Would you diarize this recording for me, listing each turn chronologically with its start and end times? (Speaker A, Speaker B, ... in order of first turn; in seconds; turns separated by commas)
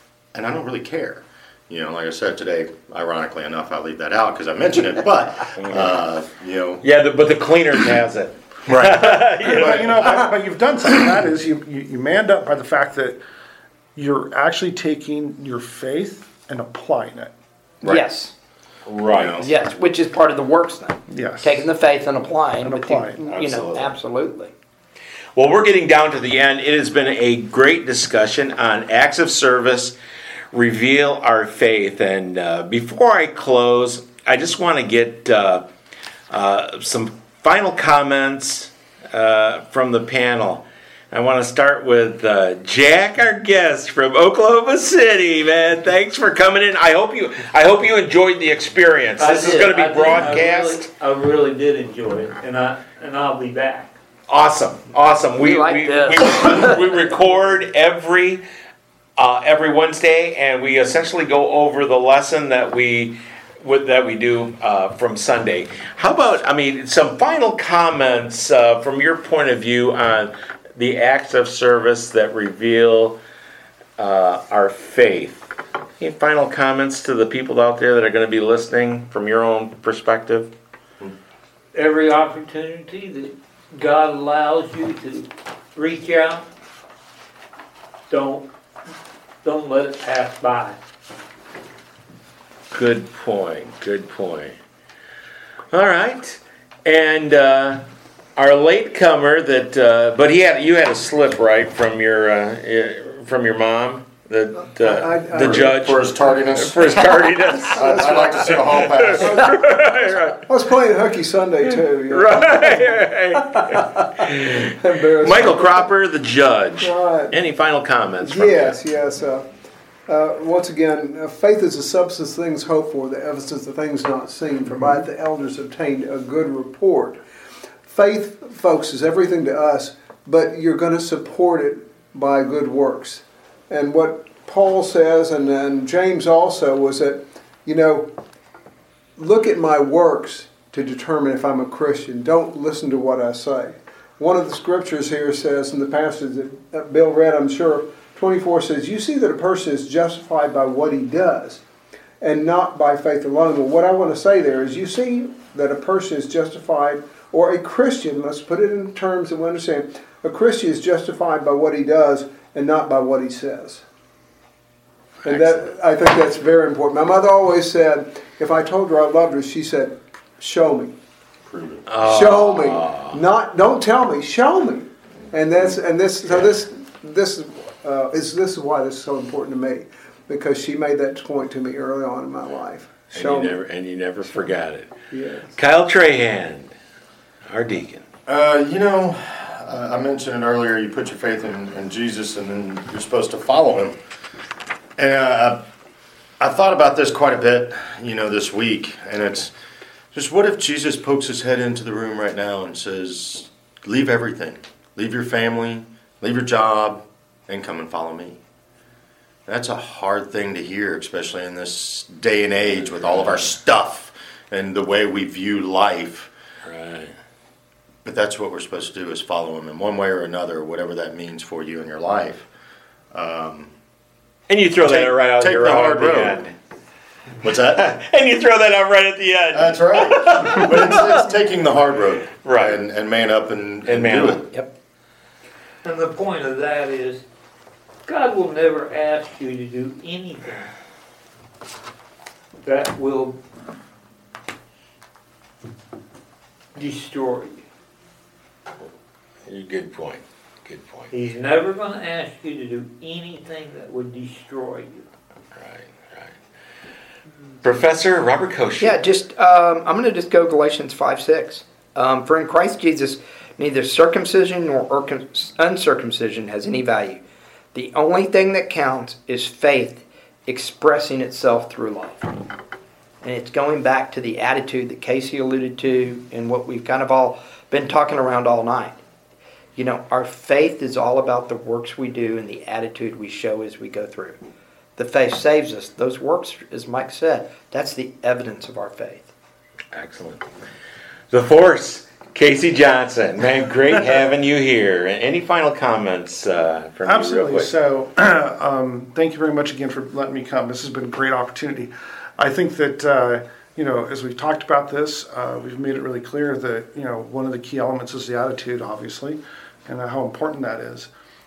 Speaker A: 0.3-6.8, Speaker B: 5.6-6.0, Speaker B: 6.8-10.0, Speaker A: 8.7-10.3, Speaker C: 9.4-13.2, Speaker C: 13.9-17.3, Speaker D: 17.8-18.3, Speaker B: 18.9-19.5, Speaker A: 19.1-19.5, Speaker D: 19.4-24.5, Speaker C: 21.1-21.7, Speaker C: 22.6-23.2, Speaker B: 23.3-23.9, Speaker B: 25.4-29.9, Speaker B: 30.5-35.6, Speaker B: 36.3-50.9, Speaker E: 49.2-53.9, Speaker B: 54.3-58.4, Speaker D: 55.4-56.8, Speaker B: 59.2-73.2, Speaker B: 74.0-80.5, Speaker E: 81.7-86.5, Speaker E: 88.1-88.5, Speaker E: 89.4-90.8, Speaker B: 92.7-94.5, Speaker B: 95.7-97.8, Speaker B: 98.4-110.4, Speaker F: 104.7-106.1, Speaker A: 105.4-107.1, Speaker A: 107.7-109.5, Speaker F: 107.8-115.9, Speaker B: 112.1-118.8, Speaker F: 116.8-117.3, Speaker F: 118.2-119.5, Speaker F: 120.1-127.2, Speaker F: 127.8-138.1, Speaker F: 139.2-151.6, Speaker F: 152.2-163.8, Speaker F: 165.2-170.9, Speaker A: 171.4-172.0, Speaker B: 171.9-173.2, Speaker F: 172.0-183.6, Speaker B: 183.1-184.9, Speaker F: 185.1-185.5, Speaker B: 185.6-186.7, Speaker B: 187.5-188.0, Speaker A: 188.3-194.0, Speaker A: 195.0-195.6, Speaker A: 196.4-199.5, Speaker A: 200.1-208.4, Speaker A: 209.5-216.3, Speaker B: 216.7-217.1, Speaker A: 218.0-222.5, Speaker A: 223.1-223.7, Speaker B: 224.5-226.5, Speaker A: 224.8-226.4, Speaker A: 227.4-227.8, Speaker B: 227.7-231.3, Speaker A: 229.5-234.5, Speaker B: 232.4-232.8, Speaker B: 233.8-234.4, Speaker E: 235.8-237.2, Speaker E: 238.1-240.7, Speaker E: 242.6-243.4, Speaker E: 246.7-247.6, Speaker B: 249.4-251.1, Speaker E: 251.1-255.0, Speaker B: 255.6-256.3, Speaker B: 257.6-259.0, Speaker D: 258.8-267.2, Speaker D: 267.7-272.3, Speaker D: 273.2-279.0, Speaker D: 279.8-284.4, Speaker D: 285.0-289.3, Speaker B: 289.9-290.5, Speaker B: 291.3-297.7, Speaker C: 297.0-311.1